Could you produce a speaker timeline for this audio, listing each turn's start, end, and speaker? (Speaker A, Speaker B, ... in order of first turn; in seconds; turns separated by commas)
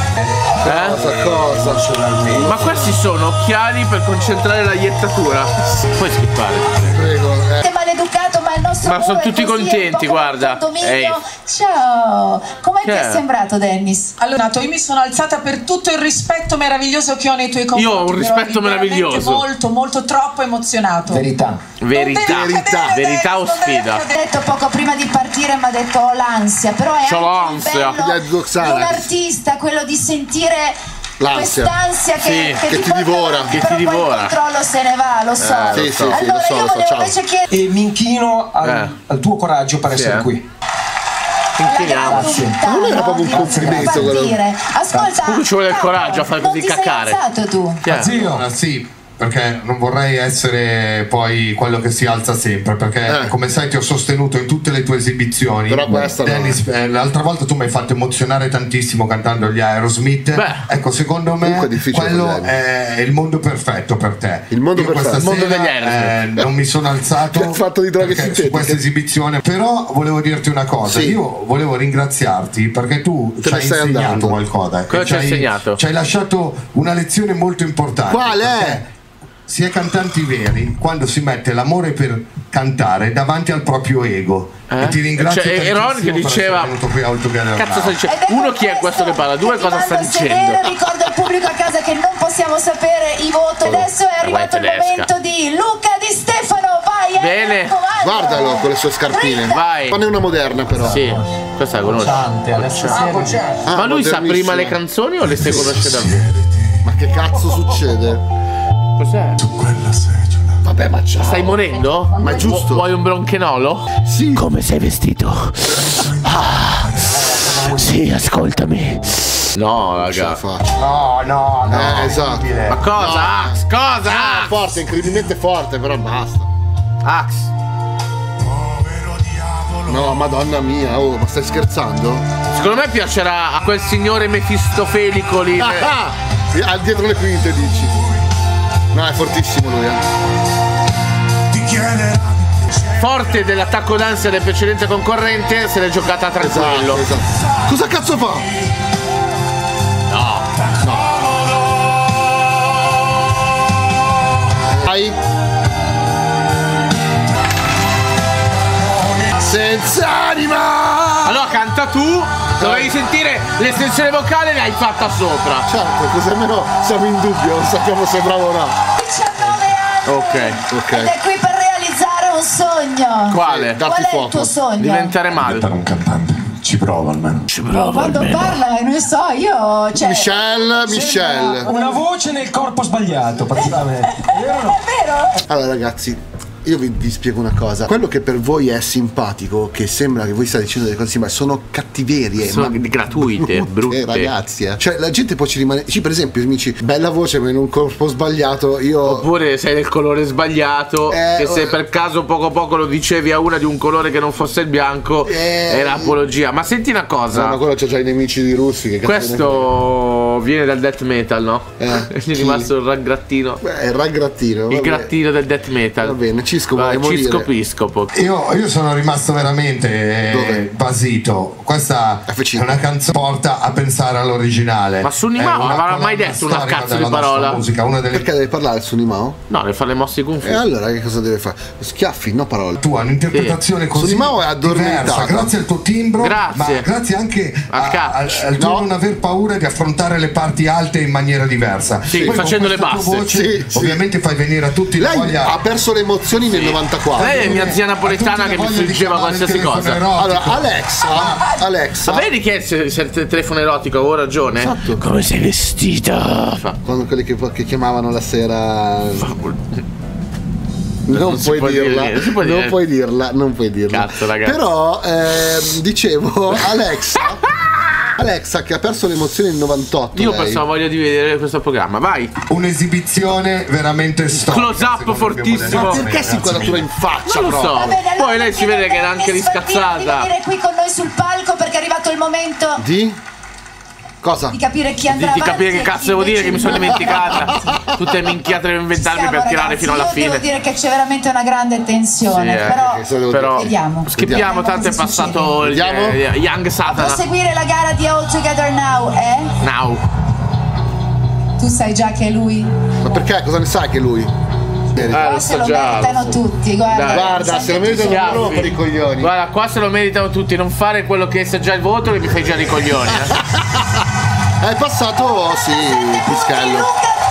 Speaker A: 0.4-2.8, Speaker B: 0.6-2.8, Speaker C: 0.6-1.0, Speaker C: 2.4-7.0, Speaker B: 6.9-7.7, Speaker D: 7.6-14.1, Speaker C: 8.8-11.2, Speaker C: 12.8-13.2, Speaker E: 14.2-21.3, Speaker C: 17.7-19.5, Speaker A: 21.1-21.6, Speaker C: 21.8-24.1, Speaker E: 21.9-24.2, Speaker B: 22.2-22.9, Speaker D: 24.0-30.8, Speaker C: 27.0-28.0, Speaker B: 27.9-29.1, Speaker B: 31.2-31.7, Speaker D: 31.3-37.5, Speaker C: 32.2-32.6, Speaker B: 32.7-33.5, Speaker C: 33.5-34.3, Speaker C: 35.4-36.2, Speaker B: 35.7-37.1, Speaker F: 37.5-40.4, Speaker C: 38.6-38.9, Speaker C: 39.9-40.3, Speaker C: 41.6-42.5, Speaker D: 41.7-47.8, Speaker F: 42.0-42.6, Speaker B: 42.6-44.4, Speaker F: 43.3-44.1, Speaker C: 45.2-47.2, Speaker C: 47.8-48.2, Speaker F: 47.9-48.5, Speaker G: 48.0-78.9, Speaker B: 53.1-53.3, Speaker B: 55.7-56.6, Speaker C: 60.3-60.7, Speaker B: 61.4-62.5, Speaker B: 64.5-65.4, Speaker C: 65.2-66.1, Speaker B: 67.3-68.8, Speaker B: 70.9-71.2, Speaker B: 73.4-74.4, Speaker C: 74.9-75.8, Speaker B: 78.1-78.8, Speaker G: 79.5-88.0, Speaker C: 84.7-86.7, Speaker C: 87.6-90.8, Speaker D: 88.1-99.6, Speaker C: 93.6-95.1, Speaker C: 97.2-97.8, Speaker B: 98.0-101.2, Speaker C: 99.5-100.0, Speaker C: 100.8-106.3, Speaker A: 101.8-103.7, Speaker B: 103.6-104.8, Speaker B: 105.3-105.8, Speaker B: 106.8-108.2, Speaker C: 109.0-109.5, Speaker G: 109.6-110.1, Speaker B: 110.6-112.8, Speaker C: 111.2-120.4, Speaker B: 114.0-114.4, Speaker G: 117.1-117.9, Speaker B: 120.0-120.8, Speaker G: 120.8-122.8, Speaker B: 121.7-126.5, Speaker C: 122.7-124.6, Speaker C: 127.0-127.5, Speaker G: 128.5-130.3, Speaker B: 129.8-132.2, Speaker C: 132.5-135.9, Speaker B: 135.6-137.9, Speaker B: 138.9-140.0, Speaker C: 142.8-147.0, Speaker B: 146.4-148.5, Speaker C: 150.1-150.5, Speaker B: 150.8-151.2, Speaker B: 154.6-155.2, Speaker B: 159.3-161.4, Speaker C: 161.2-165.7, Speaker B: 162.6-162.9, Speaker B: 165.7-168.7, Speaker D: 169.0-175.1, Speaker C: 170.1-170.6, Speaker B: 170.7-171.1, Speaker C: 173.3-173.8, Speaker B: 173.4-174.5, Speaker C: 174.8-175.7, Speaker G: 175.3-177.4, Speaker C: 177.5-178.6, Speaker D: 177.7-181.9, Speaker B: 180.0-181.7, Speaker F: 180.9-184.8, Speaker D: 183.5-185.4, Speaker B: 185.5-199.2, Speaker C: 192.4-194.3, Speaker C: 199.0-207.6, Speaker B: 201.1-201.8, Speaker B: 205.2-206.2, Speaker B: 207.3-209.7, Speaker C: 209.0-213.6, Speaker B: 211.8-212.7, Speaker B: 213.6-215.1, Speaker C: 214.7-216.2, Speaker B: 216.0-217.5, Speaker C: 216.7-218.1, Speaker G: 218.1-228.3, Speaker B: 220.3-220.6, Speaker B: 222.3-222.8, Speaker C: 225.0-227.6, Speaker B: 228.1-229.4, Speaker C: 229.5-230.6, Speaker B: 230.4-232.8, Speaker G: 232.8-245.5, Speaker B: 233.9-235.5, Speaker C: 236.2-236.9, Speaker C: 237.7-238.4, Speaker B: 238.6-238.9, Speaker C: 242.1-243.3, Speaker B: 242.1-242.4, Speaker B: 243.3-244.0, Speaker B: 245.0-247.6, Speaker C: 246.4-250.0, Speaker G: 247.2-251.4, Speaker B: 250.1-252.3, Speaker C: 252.0-256.8, Speaker B: 254.6-255.0, Speaker B: 256.8-259.3, Speaker C: 259.2-259.8, Speaker B: 261.1-267.4, Speaker C: 261.1-262.8, Speaker C: 263.9-264.6, Speaker C: 267.1-268.1, Speaker B: 268.2-270.6, Speaker C: 270.1-272.3, Speaker G: 272.5-276.9, Speaker C: 274.4-276.1, Speaker B: 275.7-277.8, Speaker C: 277.2-280.3, Speaker D: 277.7-282.8, Speaker B: 282.8-283.2, Speaker B: 284.2-284.6, Speaker D: 284.5-287.9, Speaker C: 285.1-290.4, Speaker B: 286.7-288.3, Speaker D: 288.9-295.5, Speaker C: 292.3-292.8, Speaker B: 292.7-294.5, Speaker C: 293.3-297.2, Speaker B: 295.6-296.2, Speaker D: 296.8-299.5, Speaker C: 299.6-300.0, Speaker D: 301.6-302.7, Speaker B: 303.0-304.3, Speaker B: 304.9-305.2, Speaker C: 305.1-306.4, Speaker D: 305.1-308.7, Speaker C: 306.9-313.4, Speaker B: 307.1-309.3, Speaker B: 313.1-314.0, Speaker B: 314.6-316.9, Speaker D: 315.2-317.2